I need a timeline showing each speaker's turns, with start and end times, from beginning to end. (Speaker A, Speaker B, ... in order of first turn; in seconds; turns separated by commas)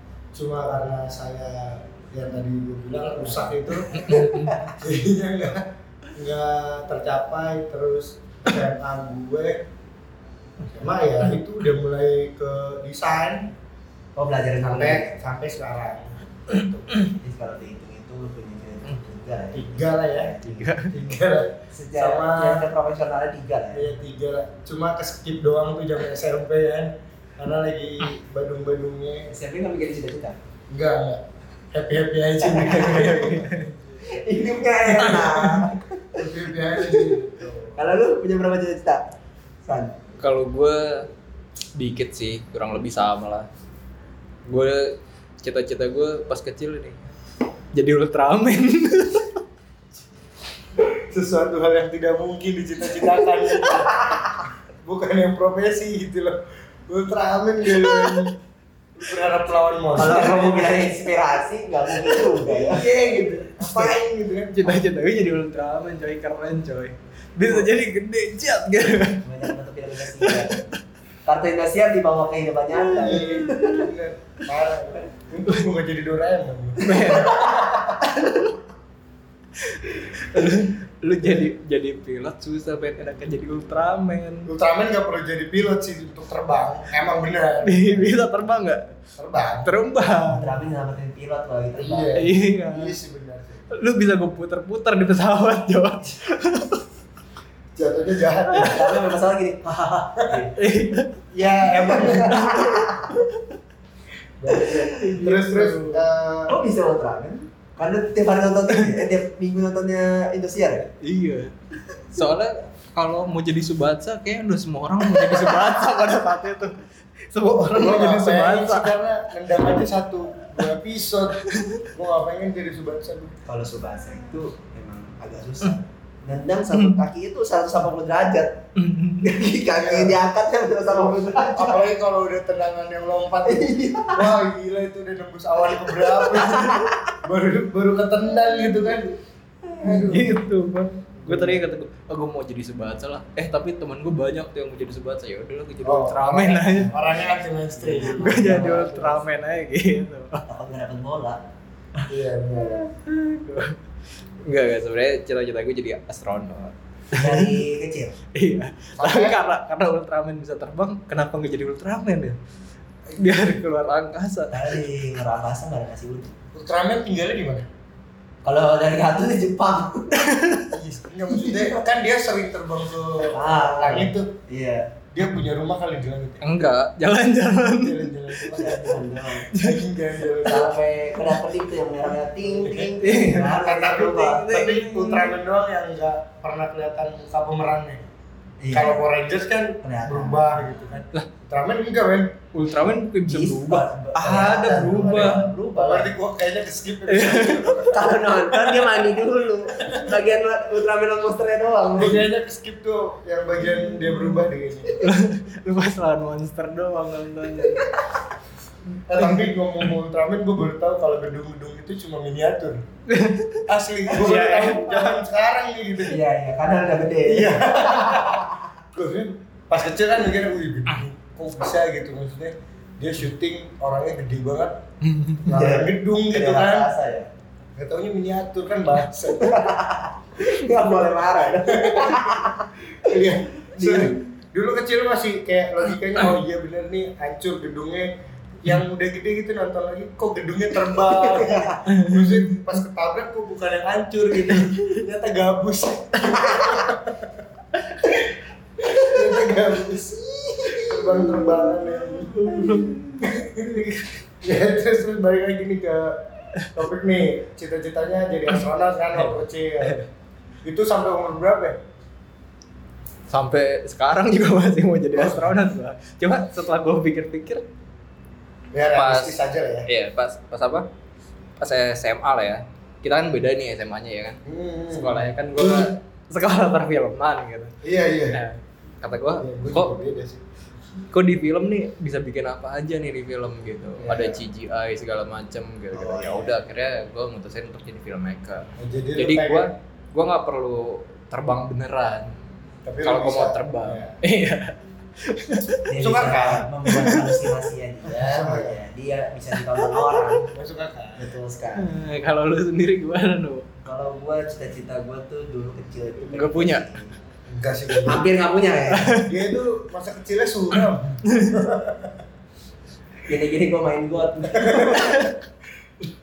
Speaker A: 0.3-9.7, Speaker B: 3.2-4.7, Speaker C: 3.9-4.6, Speaker A: 10.7-13.5, Speaker B: 14.2-15.2, Speaker A: 14.6-16.1, Speaker B: 16.5-20.9, Speaker A: 19.5-20.4, Speaker C: 20.4-21.0, Speaker A: 20.9-22.7, Speaker B: 21.7-23.9, Speaker A: 23.7-29.3, Speaker B: 29.3-30.4, Speaker A: 30.7-33.5, Speaker B: 32.4-33.5, Speaker C: 33.3-34.0, Speaker B: 34.0-37.1, Speaker A: 34.8-35.6, Speaker C: 35.1-35.4, Speaker A: 36.1-37.8, Speaker B: 37.7-39.1, Speaker B: 39.6-40.0, Speaker C: 40.2-41.1, Speaker C: 41.7-43.5, Speaker C: 44.5-47.1, Speaker C: 47.7-49.4, Speaker A: 50.8-58.4, Speaker C: 57.8-58.3, Speaker A: 59.0-60.9, Speaker B: 59.9-62.9, Speaker A: 62.1-64.8, Speaker C: 63.6-63.9, Speaker C: 64.5-69.5, Speaker B: 69.2-70.6, Speaker C: 70.1-70.7, Speaker B: 71.2-73.8, Speaker C: 72.8-73.9, Speaker A: 73.0-77.9, Speaker C: 76.8-78.5, Speaker B: 77.2-78.0, Speaker C: 79.6-84.5, Speaker A: 84.5-88.2, Speaker C: 87.6-89.0, Speaker A: 89.2-89.8, Speaker C: 89.6-90.6, Speaker B: 90.2-92.2, Speaker A: 91.8-93.6, Speaker C: 92.1-93.0, Speaker C: 93.7-96.8, Speaker A: 97.7-98.9, Speaker C: 98.5-98.8, Speaker B: 98.5-100.6, Speaker A: 100.2-100.5, Speaker C: 100.5-101.2, Speaker A: 101.3-102.8, Speaker B: 101.8-103.1, Speaker C: 101.9-103.4, Speaker A: 104.4-106.6, Speaker B: 104.5-104.9, Speaker C: 104.7-106.0, Speaker B: 106.5-110.9, Speaker C: 108.7-109.0, Speaker C: 111.0-119.0, Speaker B: 115.1-115.8, Speaker A: 117.5-123.4, Speaker C: 121.4-121.9, Speaker B: 123.5-128.6, Speaker C: 126.7-127.0, Speaker C: 128.8-129.4, Speaker B: 129.2-131.8, Speaker A: 129.7-130.2, Speaker A: 130.8-139.1, Speaker B: 133.4-134.3, Speaker B: 135.8-137.2, Speaker B: 139.8-140.2, Speaker A: 139.8-140.3, Speaker C: 139.8-147.0, Speaker B: 141.2-141.6, Speaker A: 145.8-149.1, Speaker B: 147.8-149.1, Speaker C: 147.8-150.4, Speaker B: 150.5-151.4, Speaker B: 151.9-152.8, Speaker A: 152.1-152.8, Speaker C: 152.9-153.8, Speaker C: 154.4-157.6, Speaker B: 157.1-158.2, Speaker C: 158.3-162.4, Speaker A: 159.0-159.4, Speaker C: 163.2-164.8, Speaker B: 164.5-166.4, Speaker A: 166.5-167.7, Speaker B: 168.4-170.3, Speaker C: 170.2-170.7, Speaker A: 170.7-174.3, Speaker B: 171.4-171.8, Speaker B: 173.2-174.9, Speaker A: 175.1-176.4, Speaker C: 176.4-178.9, Speaker A: 177.8-180.8, Speaker B: 178.5-179.5, Speaker C: 179.5-179.9, Speaker B: 180.4-184.5, Speaker A: 182.4-188.0, Speaker C: 183.0-185.3, Speaker B: 188.6-188.9, Speaker A: 188.7-192.4, Speaker B: 189.8-190.7, Speaker C: 192.5-195.5, Speaker B: 193.2-196.1, Speaker A: 194.7-198.2, Speaker C: 197.1-199.0, Speaker B: 197.9-202.3, Speaker A: 202.0-205.0, Speaker C: 205.0-208.0, Speaker B: 207.8-208.0, Speaker A: 209.1-212.8, Speaker C: 209.1-209.4, Speaker C: 213.1-215.2, Speaker A: 213.7-216.2, Speaker B: 216.0-218.7, Speaker A: 217.2-224.8, Speaker C: 225.0-225.4, Speaker B: 225.4-227.3, Speaker A: 225.4-226.9, Speaker A: 227.8-229.8, Speaker B: 229.4-234.2, Speaker A: 231.7-247.4, Speaker B: 241.2-241.8, Speaker C: 241.9-242.4, Speaker C: 244.4-244.9, Speaker C: 246.2-246.6, Speaker A: 248.8-260.0, Speaker C: 248.9-249.4, Speaker C: 250.7-253.3, Speaker C: 259.1-260.1, Speaker A: 260.6-261.8, Speaker C: 263.3-267.6, Speaker A: 265.1-265.6, Speaker A: 268.7-269.9, Speaker C: 268.9-270.9, Speaker C: 271.6-274.4, Speaker A: 274.4-275.9, Speaker C: 274.9-277.8, Speaker A: 277.8-278.4, Speaker C: 278.3-279.9, Speaker A: 279.4-280.4, Speaker C: 281.1-292.4, Speaker A: 284.0-284.4, Speaker B: 285.9-286.6, Speaker A: 288.8-289.7, Speaker A: 292.8-294.1, Speaker C: 293.0-295.9, Speaker B: 295.9-300.5, Speaker A: 296.0-296.7, Speaker C: 296.9-297.5, Speaker A: 298.1-298.8, Speaker C: 299.8-300.3, Speaker A: 300.5-301.3, Speaker B: 301.2-301.9, Speaker C: 301.8-303.7, Speaker B: 303.8-307.1, Speaker C: 306.3-306.9, Speaker A: 307.5-308.3, Speaker B: 308.0-309.1, Speaker C: 308.9-309.4, Speaker A: 309.2-312.2, Speaker C: 311.3-311.5, Speaker B: 313.2-315.2, Speaker A: 314.6-315.1, Speaker C: 315.0-315.3